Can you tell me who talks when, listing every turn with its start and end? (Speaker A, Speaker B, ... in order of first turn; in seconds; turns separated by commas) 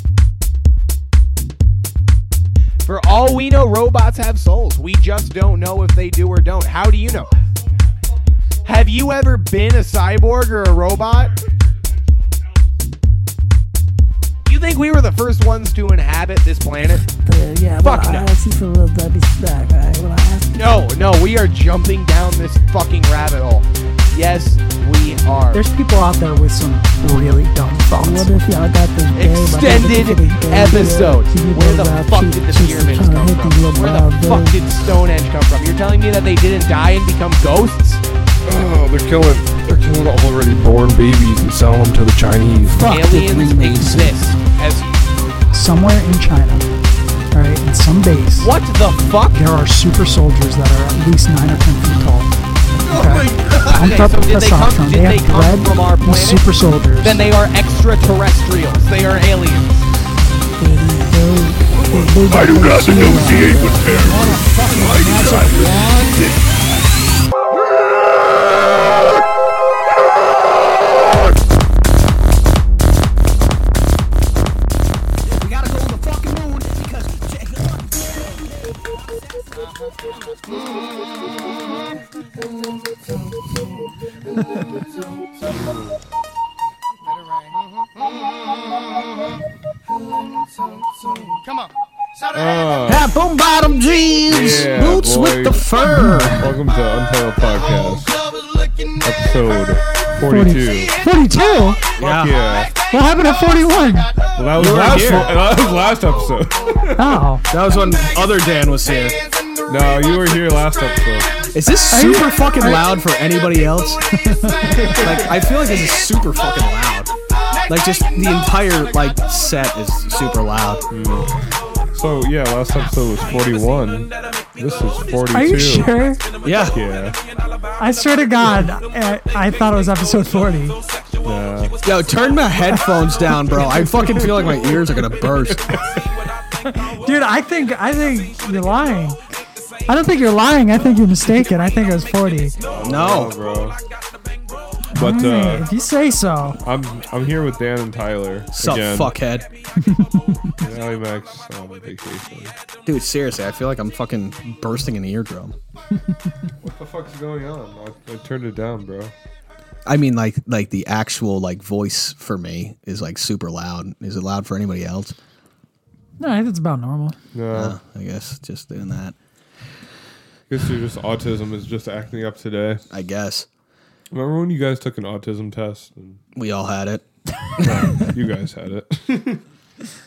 Speaker A: 2.8-7.3, Speaker A: 8.6-11.4, Speaker A: 14.4-17.1, Speaker B: 17.2-20.6, Speaker A: 17.8-18.3, Speaker A: 20.5-25.6, Speaker C: 25.5-28.4, Speaker B: 27.9-34.6, Speaker A: 29.1-38.0, Speaker C: 31.3-32.0, Speaker D: 38.5-42.8, Speaker C: 42.8-43.7, Speaker B: 42.8-44.1, Speaker A: 42.8-45.1, Speaker C: 45.5-46.6, Speaker C: 47.3-48.5, Speaker A: 48.4-49.4, Speaker C: 49.3-52.3, Speaker E: 52.8-54.1, Speaker C: 52.9-57.3, Speaker A: 53.5-59.9, Speaker B: 60.6-66.3, Speaker D: 62.6-64.0, Speaker C: 62.7-65.1, Speaker E: 64.1-65.4, Speaker E: 75.3-78.3, Speaker D: 85.5-86.0, Speaker D: 92.3-93.1, Speaker E: 92.8-96.4, Speaker D: 94.3-95.7, Speaker C: 95.8-96.4, Speaker D: 96.4-98.2, Speaker D: 99.0-100.9, Speaker C: 100.2-101.8, Speaker E: 102.0-102.4, Speaker D: 102.0-102.7, Speaker C: 102.9-104.1, Speaker D: 104.3-107.2, Speaker E: 104.5-105.3, Speaker C: 107.0-107.5, Speaker E: 107.5-109.2, Speaker D: 109.7-111.4, Speaker E: 111.5-114.0, Speaker C: 111.9-112.8, Speaker C: 114.1-115.0, Speaker D: 114.7-115.2, Speaker E: 114.9-117.1, Speaker E: 117.7-120.8, Speaker D: 120.9-121.3, Speaker D: 121.9-125.9, Speaker C: 125.3-126.2, Speaker E: 126.4-126.8, Speaker D: 126.7-127.2, Speaker C: 127.8-130.8, Speaker D: 131.2-131.8, Speaker E: 131.8-135.8, Speaker D: 133.7-136.0, Speaker C: 136.6-139.2, Speaker C: 139.8-142.6, Speaker D: 142.7-143.8, Speaker E: 142.8-143.3, Speaker C: 144.9-146.6, Speaker D: 144.9-145.7, Speaker D: 146.6-149.2, Speaker E: 148.5-149.5, Speaker C: 149.8-150.6, Speaker D: 150.6-152.5, Speaker E: 152.8-155.6, Speaker D: 156.6-159.1, Speaker E: 159.8-165.1, Speaker C: 166.2-167.2, Speaker D: 167.3-167.8, Speaker E: 167.5-169.2, Speaker D: 170.5-172.8, Speaker E: 172.9-173.5, Speaker D: 174.1-176.2, Speaker E: 176.3-177.0, Speaker E: 177.6-178.0, Speaker D: 177.6-179.4